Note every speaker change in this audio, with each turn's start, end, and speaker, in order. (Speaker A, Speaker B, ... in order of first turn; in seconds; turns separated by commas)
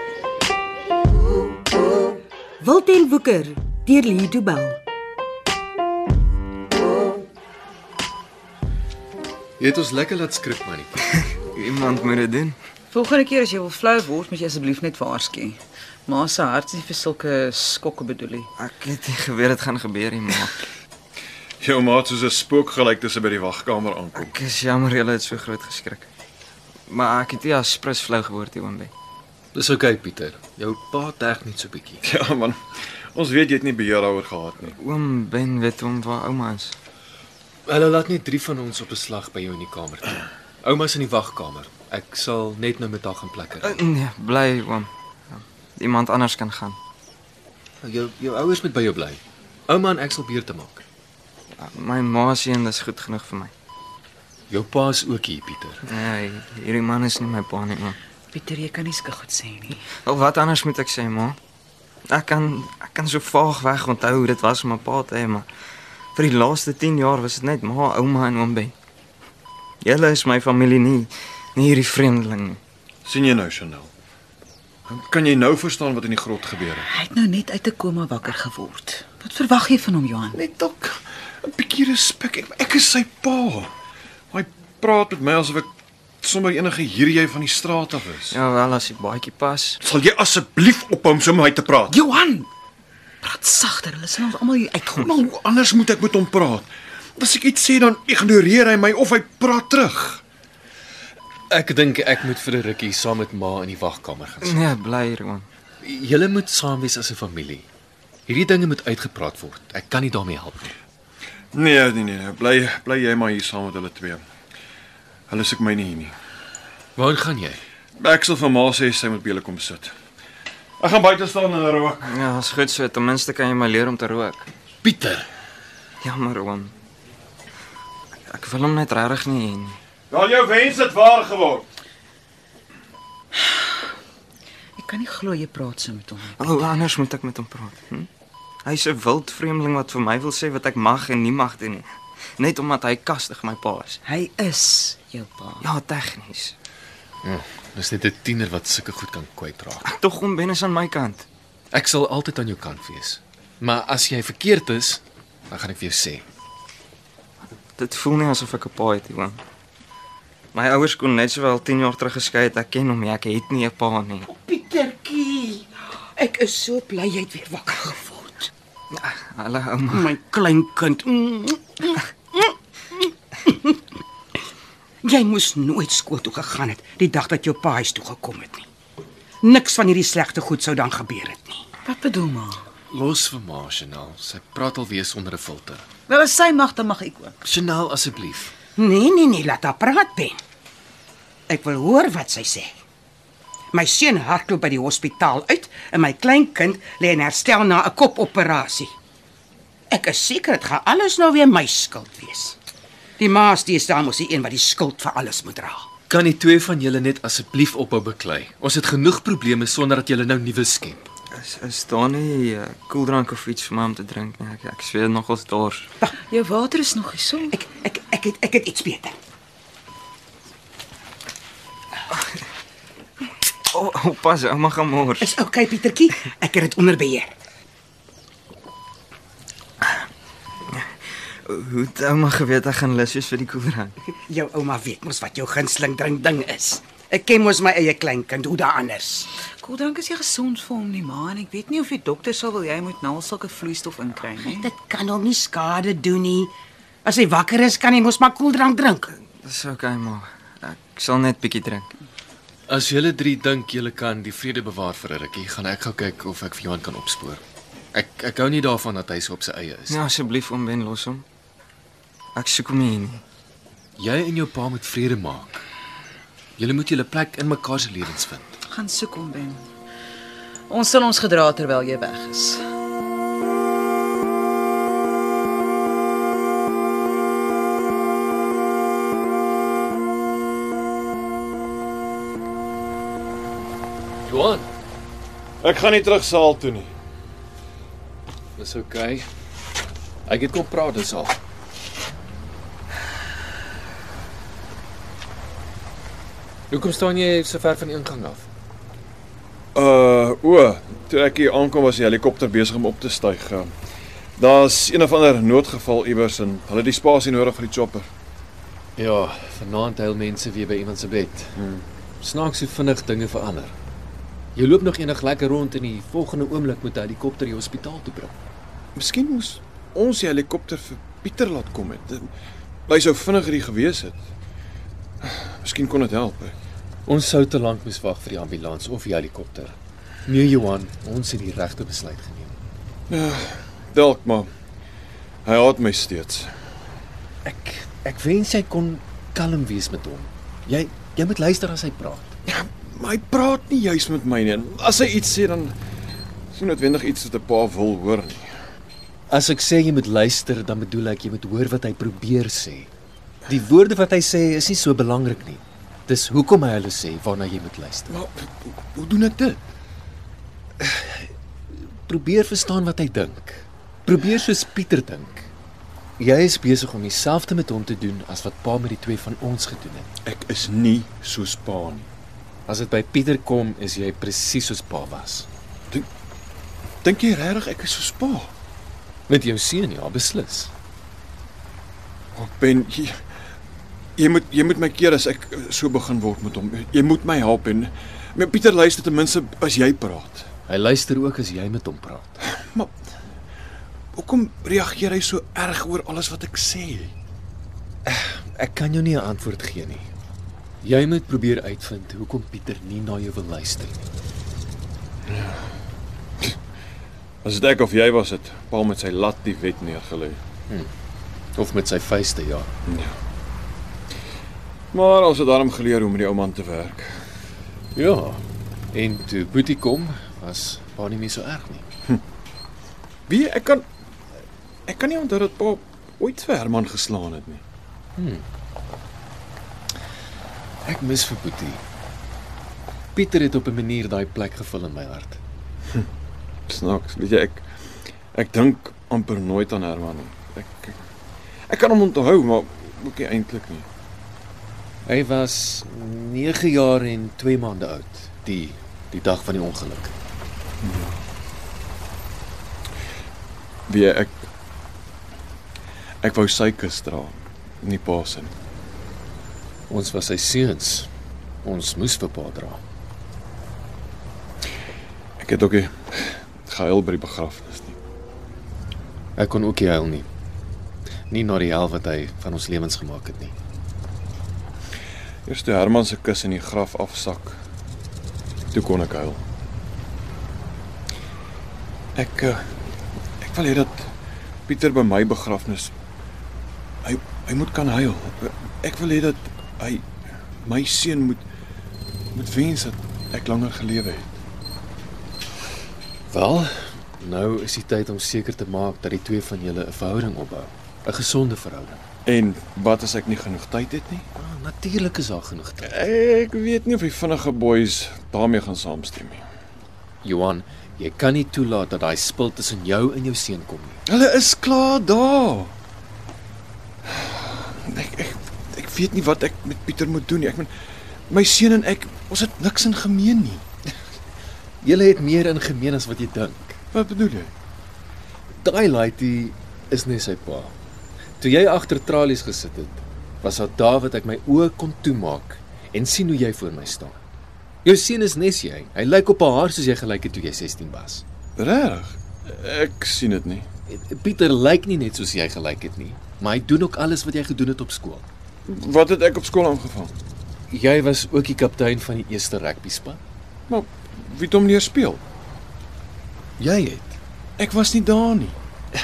Speaker A: 2.6-4.8, Speaker B: 9.6-11.2, Speaker C: 11.5-12.6, Speaker D: 12.9-18.5, Speaker C: 18.6-20.6, Speaker E: 21.6-24.3, Speaker C: 24.1-26.1, Speaker C: 26.9-28.9, Speaker B: 29.5-32.0, Speaker E: 32.0-32.6, Speaker E: 33.1-34.8, Speaker C: 34.8-36.7, Speaker B: 37.7-43.8, Speaker C: 43.6-46.8, Speaker B: 47.8-50.8, Speaker C: 51.6-53.5, Speaker B: 54.5-55.8, Speaker C: 55.9-58.0, Speaker D: 58.3-59.9, Speaker C: 59.9-61.4, Speaker C: 62.1-65.5, Speaker C: 66.1-68.7, Speaker C: 69.8-72.6, Speaker E: 73.0-73.9, Speaker E: 74.9-76.9, Speaker D: 76.9-80.4, Speaker E: 80.3-83.7, Speaker E: 84.3-85.7, Speaker E: 86.2-88.4, Speaker C: 88.3-89.8, Speaker E: 89.8-92.0, Speaker D: 91.9-92.5, Speaker D: 93.2-95.2, Speaker E: 95.0-100.2, Speaker B: 101.5-104.7, Speaker C: 104.4-105.5, Speaker B: 105.8-107.7, Speaker B: 108.3-110.7, Speaker E: 111.5-114.2, Speaker E: 115.3-116.1, Speaker B: 117.0-117.6, Speaker E: 118.0-119.9, Speaker E: 120.8-122.2, Speaker C: 122.0-124.5, Speaker B: 124.8-125.2, Speaker C: 126.0-126.7, Speaker C: 128.3-129.8, Speaker E: 130.1-131.6, Speaker D: 134.8-136.6, Speaker C: 136.4-138.1, Speaker C: 138.6-141.8, Speaker C: 142.4-144.0, Speaker D: 144.0-145.7, Speaker C: 145.6-146.5, Speaker B: 147.2-149.9, Speaker C: 149.8-151.2, Speaker B: 151.7-156.2, Speaker C: 157.8-159.4, Speaker C: 160.5-164.3, Speaker F: 164.3-168.5, Speaker C: 168.9-170.1, Speaker F: 169.9-173.8, Speaker F: 175.0-178.7, Speaker F: 179.4-181.7, Speaker D: 181.8-182.6, Speaker B: 182.9-185.8, Speaker D: 186.1-187.3, Speaker B: 187.4-188.5, Speaker F: 188.8-190.4, Speaker F: 191.5-192.7, Speaker F: 193.7-198.9, Speaker F: 199.9-202.6, Speaker F: 203.2-205.9, Speaker B: 206.1-211.0, Speaker C: 211.3-215.9, Speaker D: 216.2-217.6, Speaker F: 217.5-219.2, Speaker C: 223.7-225.3, Speaker F: 225.2-227.3, Speaker C: 231.4-234.0, Speaker F: 234.3-239.3, Speaker D: 239.6-244.7, Speaker F: 244.4-246.5, Speaker F: 247.0-249.1, Speaker C: 249.4-251.9, Speaker B: 252.7-257.4, Speaker B: 257.9-260.0, Speaker C: 259.9-261.2, Speaker C: 262.3-263.2, Speaker B: 264.0-265.6, Speaker B: 266.6-268.6, Speaker D: 268.7-269.6, Speaker D: 270.7-272.6, Speaker B: 284.2-284.7, Speaker E: 285.6-286.9, Speaker B: 288.6-289.2, Speaker B: 290.2-291.4, Speaker B: 296.7-298.5, Speaker E: 299.7-303.7, Speaker E: 304.4-308.1, Speaker B: 309.0-311.5, Speaker E: 311.6-311.9, Speaker B: 312.2-313.7, Speaker B: 314.5-318.4, Speaker E: 318.9-322.3, Speaker E: 322.9-324.2, Speaker E: 325.2-326.5, Speaker B: 327.1-329.8, Speaker B: 330.3-332.5, Speaker E: 333.1-334.5, Speaker E: 335.4-336.5, Speaker B: 337.4-342.3, Speaker E: 342.5-345.8, Speaker E: 346.5-348.5, Speaker B: 349.3-352.9, Speaker B: 353.5-358.2, Speaker E: 358.1-359.6, Speaker B: 360.8-361.1, Speaker B: 362.1-365.5, Speaker B: 366.2-370.1, Speaker E: 370.2-372.1, Speaker B: 372.7-375.5, Speaker E: 377.0-378.5, Speaker B: 379.3-380.7, Speaker E: 382.3-383.2, Speaker E: 384.2-390.5, Speaker B: 390.7-392.4, Speaker E: 392.4-392.9, Speaker E: 394.1-397.1, Speaker B: 398.1-400.1, Speaker B: 400.8-404.1, Speaker E: 407.4-410.4, Speaker B: 411.6-412.7, Speaker E: 412.9-413.1, Speaker E: 414.9-417.1, Speaker B: 417.9-421.9, Speaker E: 423.3-423.9, Speaker E: 424.9-427.6, Speaker B: 428.2-428.4, Speaker B: 430.8-431.8, Speaker B: 433.1-435.4, Speaker E: 436.7-437.6, Speaker E: 438.3-441.0, Speaker E: 441.7-443.9, Speaker B: 445.1-450.1, Speaker E: 450.8-451.1, Speaker E: 453.9-454.4, Speaker E: 456.2-458.5, Speaker B: 459.9-461.1, Speaker B: 461.6-462.8, Speaker E: 465.4-468.0, Speaker B: 469.4-470.3, Speaker B: 471.3-473.5, Speaker E: 475.4-477.6, Speaker E: 478.7-479.4, Speaker E: 482.1-482.6, Speaker E: 483.4-484.1, Speaker E: 484.7-485.9, Speaker E: 487.0-490.1, Speaker E: 490.6-491.4, Speaker E: 492.3-494.4, Speaker B: 496.3-502.0, Speaker E: 502.2-504.2, Speaker B: 504.4-505.9, Speaker E: 505.8-509.4, Speaker B: 510.2-514.0, Speaker E: 514.1-515.7, Speaker E: 517.1-520.7, Speaker E: 521.3-523.6, Speaker B: 524.8-526.8, Speaker E: 526.9-527.5, Speaker B: 528.6-530.7, Speaker B: 531.4-537.2, Speaker B: 537.8-541.2, Speaker E: 541.6-543.7, Speaker B: 543.9-548.2, Speaker E: 548.7-550.1, Speaker B: 550.7-553.2, Speaker E: 553.7-555.2, Speaker B: 556.6-557.2, Speaker E: 557.6-558.6